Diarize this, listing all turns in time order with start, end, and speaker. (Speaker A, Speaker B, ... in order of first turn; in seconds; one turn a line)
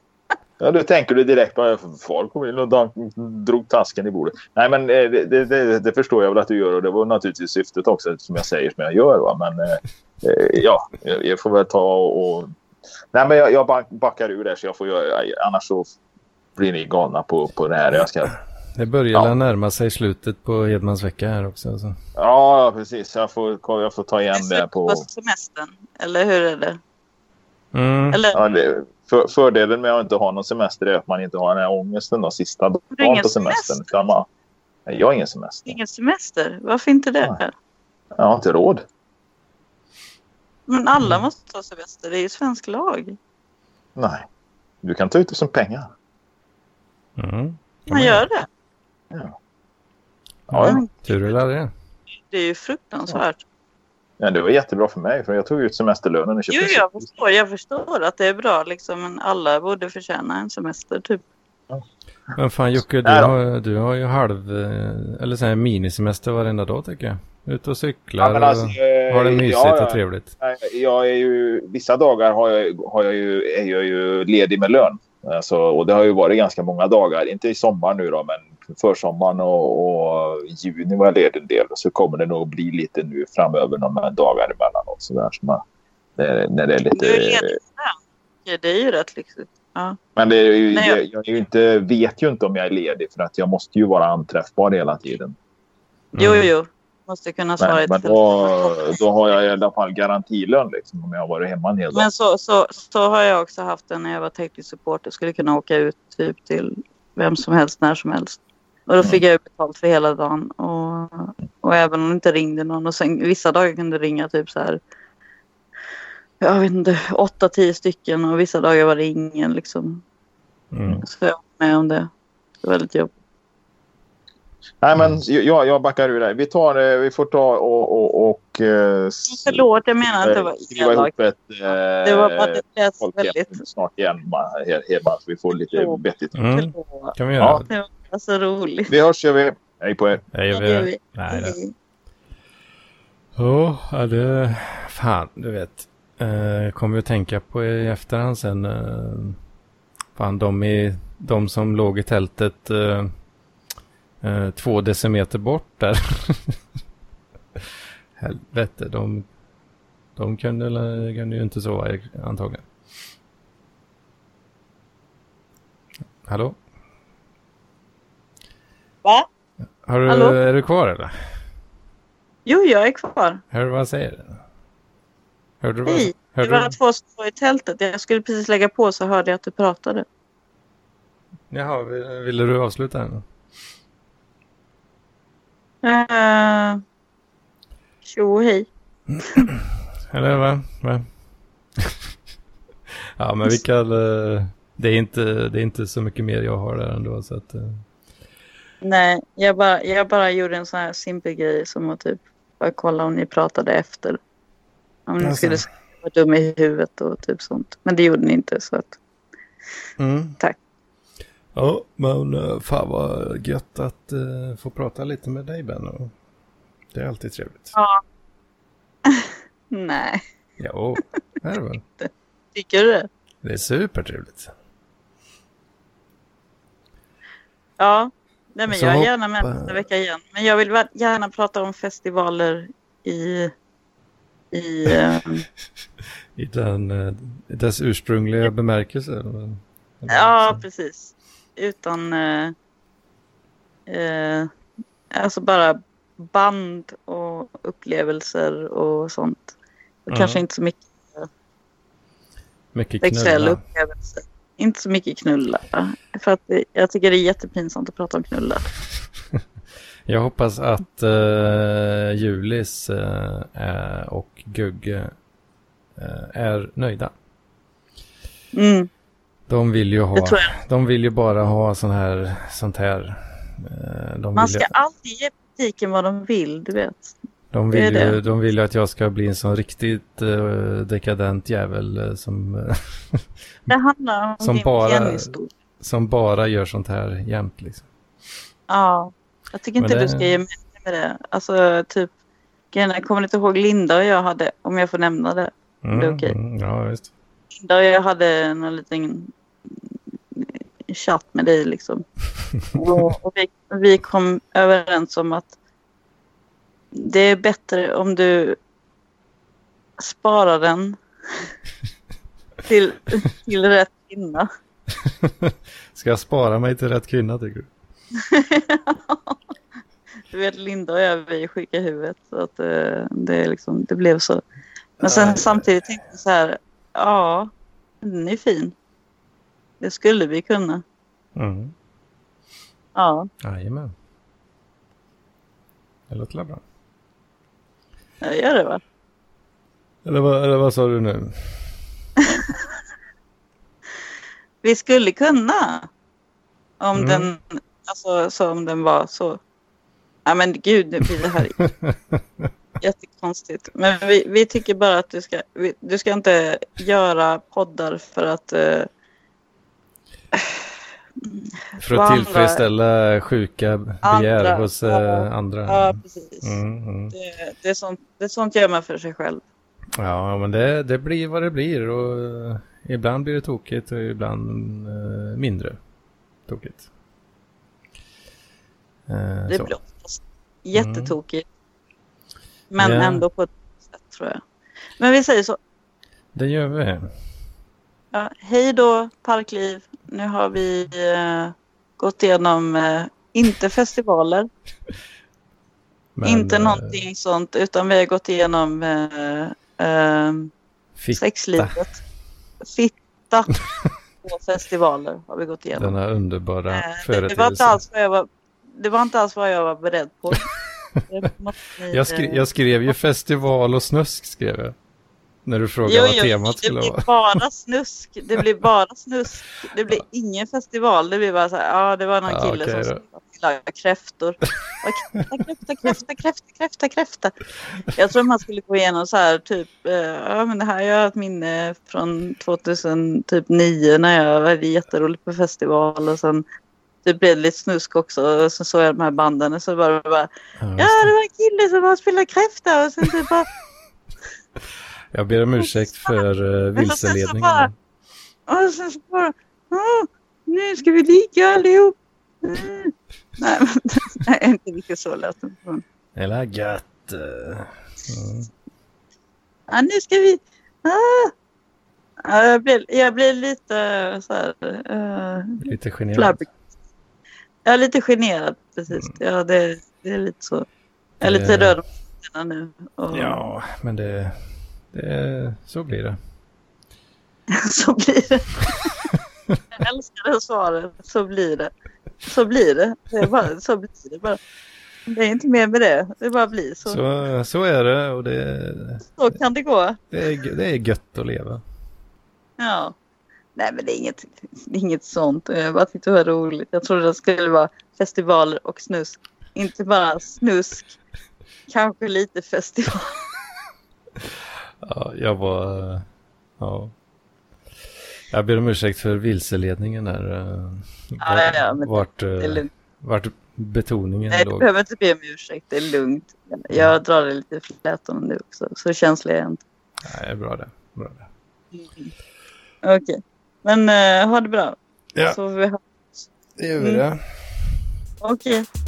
Speaker A: 0.6-12.5
Speaker A: 13.1-15.8
Speaker A: 16.6-18.3
Speaker B: 18.8-21.9
Speaker A: 22.2-25.0
Speaker C: 24.3-26.8
Speaker B: 27.7-28.2
Speaker C: 28.1-28.4
Speaker A: 28.3-34.3
Speaker C: 32.9-33.9
Speaker A: 34.9-35.8
Speaker C: 35.7-37.5
Speaker A: 38.2-38.8
Speaker C: 40.7-43.2
Speaker A: 44.0-44.2
Speaker A: 44.8-45.9
Speaker B: 47.2-48.2
Speaker C: 47.9-48.5
Speaker A: 50.5-50.8
Speaker B: 50.5-51.7
Speaker C: 50.6-51.3
Speaker C: 52.3-53.4
Speaker A: 54.2-57.1
Speaker C: 56.5-61.2
Speaker B: 62.4-70.3
Speaker A: 63.0-63.3
Speaker A: 68.2-85.6
Speaker A: 86.2-87.6
Speaker C: 86.9-90.0
Speaker A: 90.2-95.3
Speaker C: 90.7-91.0
Speaker B: 96.1-96.5
Speaker C: 96.2-98.9
Speaker A: 97.6-102.1
Speaker C: 101.9-114.8
Speaker C: 116.4-120.0
Speaker B: 120.7-121.0
Speaker C: 121.0-122.1
Speaker C: 122.6-123.1
Speaker A: 124.8-136.4
Speaker C: 129.3-131.1
Speaker C: 132.0-133.6
Speaker C: 135.5-137.2
Speaker B: 136.3-137.7
Speaker A: 137.4-137.6
Speaker C: 137.7-138.9
Speaker A: 138.9-140.2
Speaker B: 140.3-141.6
Speaker C: 140.5-141.7
Speaker B: 143.4-149.4
Speaker B: 150.2-153.1
Speaker B: 154.2-156.6
Speaker B: 158.2-159.2
Speaker B: 160.2-162.7
Speaker B: 166.2-166.6
Speaker B: 169.8-171.1
Speaker C: 170.1-170.4
Speaker C: 172.4-173.4
Speaker B: 173.5-174.4
Speaker B: 175.6-176.7
Speaker C: 175.8-180.1
Speaker B: 181.5-183.2
Speaker C: 185.8-186.8
Speaker C: 188.0-188.7
Speaker B: 189.1-191.0
Speaker B: 191.8-192.0
Speaker B: 193.2-197.8
Speaker C: 198.8-204.2
Speaker C: 205.1-209.0
Speaker B: 205.2-205.7
Speaker B: 210.0-210.4
Speaker B: 211.5-216.1
Speaker B: 216.9-217.7
Speaker C: 217.7-218.0
Speaker C: 219.1-220.2
Speaker B: 220.6-221.8
Speaker C: 222.0-223.1
Speaker B: 223.4-224.5
Speaker C: 227.8-233.5
Speaker B: 228.7-229.8
Speaker C: 234.5-235.4
Speaker B: 236.3-240.6
Speaker C: 240.1-242.5
Speaker C: 243.9-244.5
Speaker C: 245.1-249.5
Speaker C: 250.1-251.3
Speaker B: 250.1-250.4
Speaker B: 252.7-253.6
Speaker C: 253.0-258.6
Speaker B: 260.1-265.1
Speaker B: 265.9-267.1
Speaker C: 268.5-268.9
Speaker B: 269.5-274.7
Speaker C: 270.1-270.5
Speaker C: 274.3-277.1
Speaker B: 277.5-283.7
Speaker C: 277.7-278.2
Speaker C: 283.7-285.5
Speaker B: 284.4-287.9
Speaker C: 288.7-292.1
Speaker B: 289.8-290.4
Speaker C: 292.7-296.3
Speaker B: 295.8-297.1
Speaker C: 297.5-299.3
Speaker C: 300.3-302.0
Speaker C: 302.7-305.6
Speaker C: 306.9-308.6
Speaker C: 310.0-311.0
Speaker C: 312.6-314.5
Speaker B: 315.0-317.7
Speaker C: 318.2-319.4
Speaker C: 320.3-324.4
Speaker B: 325.0-325.8
Speaker C: 325.0-328.7
Speaker C: 329.8-330.8
Speaker B: 331.4-331.7
Speaker C: 332.9-333.3
Speaker B: 333.4-333.9
Speaker B: 336.1-336.6
Speaker C: 338.2-338.8
Speaker B: 340.0-341.7
Speaker C: 342.2-342.5
Speaker C: 344.6-345.9
Speaker C: 346.8-349.4
Speaker B: 346.9-347.3
Speaker C: 350.2-351.6
Speaker B: 351.6-352.5
Speaker C: 352.8-358.9
Speaker C: 361.3-362.6
Speaker B: 361.8-367.1
Speaker C: 364.0-366.6
Speaker C: 367.1-369.4
Speaker B: 370.0-375.8
Speaker B: 376.5-376.8
Speaker B: 379.1-379.7
Speaker C: 379.5-381.4
Speaker B: 380.7-381.1
Speaker C: 382.7-384.4
Speaker B: 382.8-383.2
Speaker C: 385.0-385.6
Speaker B: 386.3-387.1
Speaker C: 388.1-394.5
Speaker B: 396.1-397.0
Speaker C: 396.2-400.5
Speaker B: 401.0-401.8
Speaker C: 401.1-402.0
Speaker C: 402.6-403.5
Speaker C: 404.2-406.0
Speaker B: 405.8-407.8
Speaker C: 406.7-410.5
Speaker C: 411.1-412.4
Speaker B: 411.9-414.7
Speaker B: 415.4-417.4
Speaker C: 415.8-427.3
Speaker B: 422.3-423.0
Speaker C: 427.9-436.4
Speaker C: 437.0-443.5
Speaker B: 440.6-441.1
Speaker B: 445.1-447.7
Speaker C: 446.8-447.7
Speaker C: 448.5-455.8
Speaker B: 456.1-458.5
Speaker C: 459.7-461.3
Speaker C: 462.2-466.4
Speaker B: 465.6-466.4
Speaker C: 467.6-470.6
Speaker B: 471.2-471.8
Speaker C: 471.2-473.4
Speaker B: 473.1-474.4
Speaker B: 474.9-476.2
Speaker C: 477.5-479.0
Speaker C: 479.7-481.7
Speaker C: 482.2-484.4
Speaker C: 485.1-487.0
Speaker B: 486.9-489.0
Speaker C: 489.2-490.0
Speaker B: 490.1-491.6
Speaker C: 492.6-492.9
Speaker C: 493.6-500.9
Speaker C: 501.7-503.2
Speaker B: 504.8-506.1
Speaker B: 506.6-506.9
Speaker B: 508.3-514.7
Speaker C: 511.2-512.7
Speaker C: 514.3-519.6
Speaker B: 516.7-517.0
Speaker B: 520.0-521.3
Speaker C: 521.7-522.1
Speaker C: 522.8-526.2
Speaker B: 526.6-527.7
Speaker C: 526.8-527.0
Speaker C: 528.2-528.6